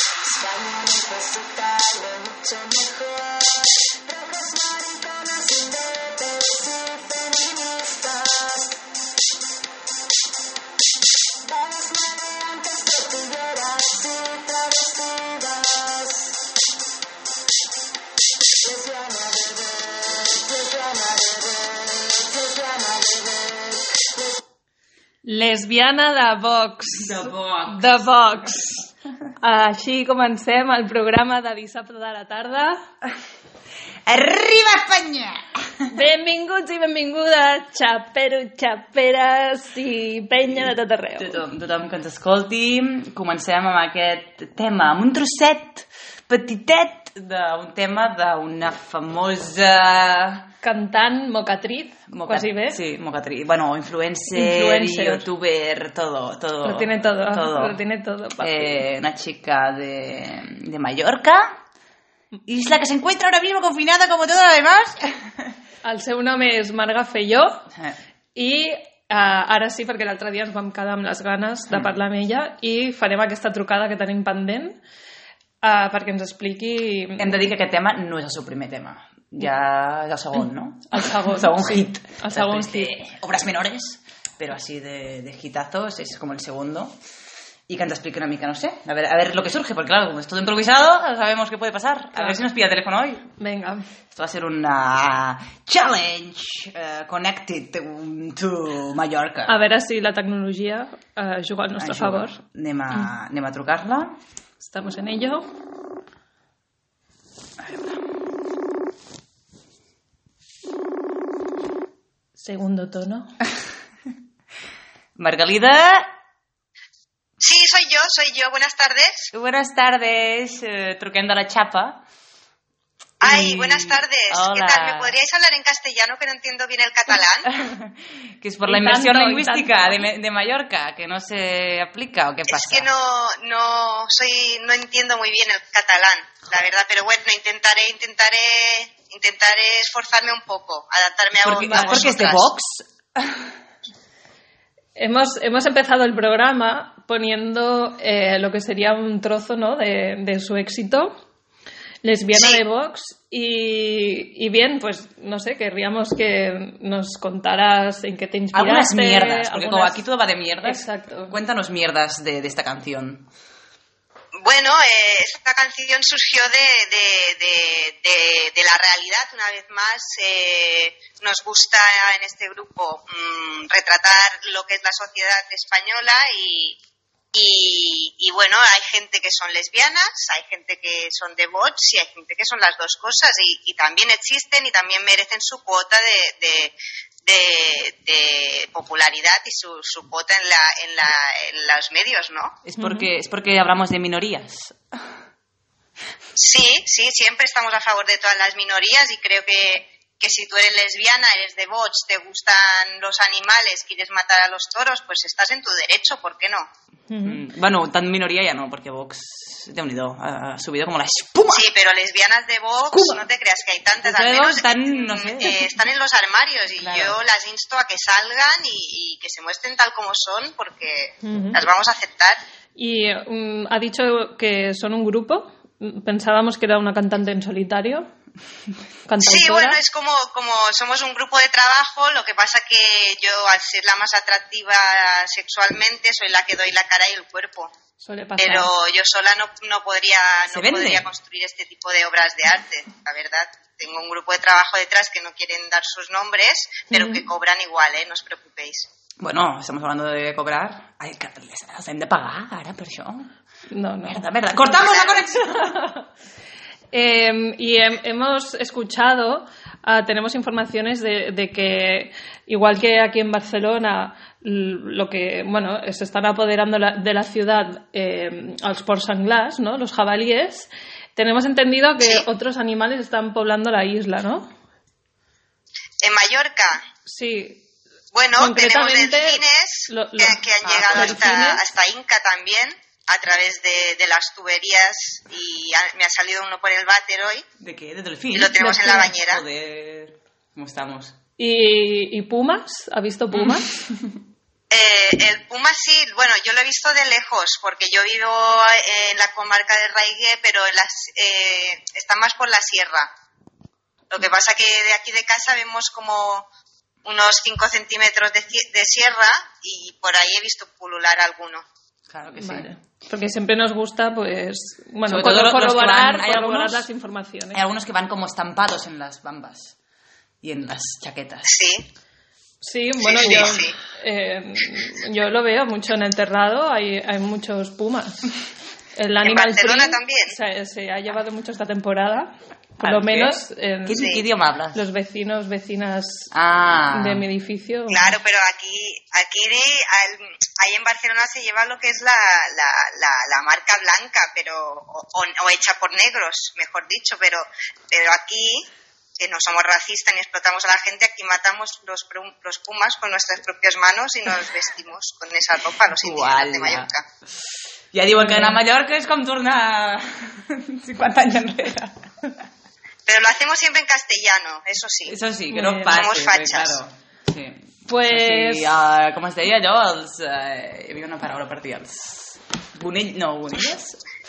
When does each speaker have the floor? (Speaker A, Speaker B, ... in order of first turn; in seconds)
Speaker A: 0.5-1.9, 4.4-5.5
Speaker B: 25.2-28.9, 29.4-32.8, 35.9-41.4, 50.6-52.8, 54.3-55.3, 56.6-58.8, 65.8-67.6, 68.3-74.8, 75.6-77.5, 80.9-83.0, 92.1-92.4, 93.4-93.8, 99.5-102.4, 104.6-105.4, 112.4-113.3, 128.6-130.1, 141.6-142.1, 144.9-151.1, 152.0-160.1, 160.6-161.3, 192.8-193.1, 207.1-207.4, 221.2-221.6, 222.8-228.1, 229.1-229.8, 238.0-238.7, 246.9-247.2, 253.7-254.6, 255.6-256.0, 256.9-274.5, 277.1-277.6, 278.3-281.6, 291.4-293.7, 312.4-317.6, 322.6-328.3, 328.9-334.2, 334.7-336.3, 336.9-338.1, 358.1-358.6, 365.5-366.0, 367.9-368.7
Speaker C: 27.0-28.1, 34.1-35.4, 41.2-50.4, 52.1-57.8, 58.4-61.6, 62.5-65.1, 77.2-86.9, 87.7-93.2, 94.1-99.5, 101.8-104.1, 107.6-108.0, 115.2-116.1, 119.3-122.0, 123.2-125.1, 127.5-132.9, 141.4-143.3, 158.5-163.3, 192.6-194.8, 207.2-211.7, 212.9-213.2, 214.0-215.7, 216.8-217.2, 240.5-241.1, 249.2-253.3, 254.1-255.7, 280.7-281.3, 287.6-291.1, 312.1-312.7, 315.0-316.9, 317.5-319.7, 320.4-321.5, 332.8-334.8, 336.3-337.2, 356.0-356.9, 357.9-362.3, 365.1-374.0
Speaker D: 117.4-119.3, 123.2-127.5, 132.5-142.5, 152.3-152.6, 164.4-176.8, 177.3-186.7, 187.2-192.5, 196.3-206.7, 211.5-222.4, 229.2-237.7, 238.4-248.9, 254.7-255.3, 276.0-276.8, 278.1-287.4, 288.3-289.4, 294.7-303.1, 304.1-306.5, 307.0-311.6, 321.5-321.9, 323.0-323.8, 329.2-330.3, 333.9-334.2, 337.9-348.7, 349.2-357.1, 363.1-365.2, 365.9-366.8